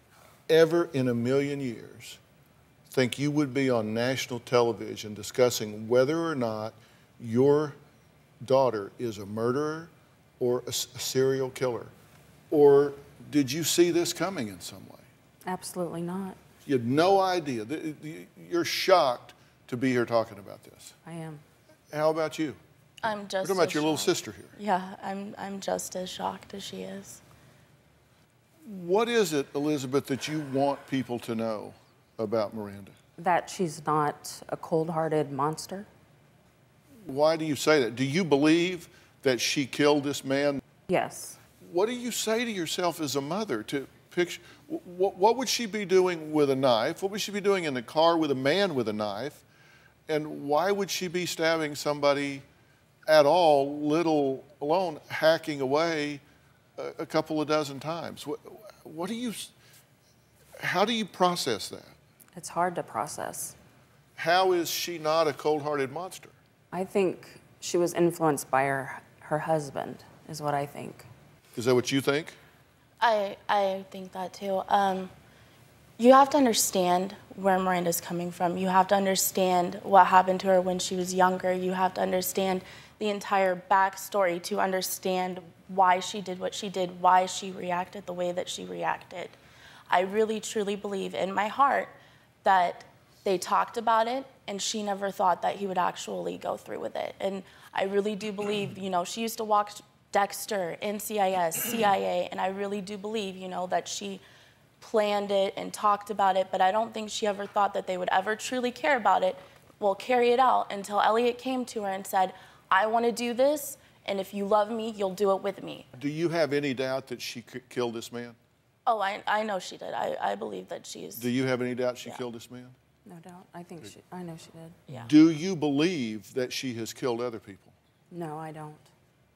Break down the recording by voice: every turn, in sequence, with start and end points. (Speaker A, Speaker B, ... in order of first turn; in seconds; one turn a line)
Speaker A: 0.5-2.2
Speaker A: 2.9-7.8
Speaker A: 8.4-11.9
Speaker A: 12.5-15.1
Speaker B: 15.4-16.4
Speaker A: 16.6-20.9
Speaker B: 21.0-21.4
Speaker A: 21.9-22.6
Speaker C: 23.0-27.2
Speaker A: 23.4-24.5
Speaker A: 28.6-33.0
Speaker B: 33.2-35.9
Speaker A: 37.0-40.6
Speaker B: 40.9-41.4
Speaker A: 41.6-49.4
Speaker A: 50.1-52.4
Speaker A: 53.1-56.2
Speaker A: 56.8-59.5
Speaker A: 60.6-61.9
Speaker B: 62.3-63.5
Speaker A: 64.2-66.3
Speaker B: 66.7-71.1
Speaker A: 71.5-72.4
Speaker C: 73.0-75.1
Speaker C: 76.0-89.3
Speaker C: 89.9-91.9
Speaker C: 92.4-104.2
Speaker C: 104.8-115.9
Speaker A: 116.0-118.3
Speaker C: 118.8-121.3
Speaker A: 121.2-122.8
Speaker B: 123.0-124.8
Speaker A: 124.9-127.7
Speaker B: 128.1-128.9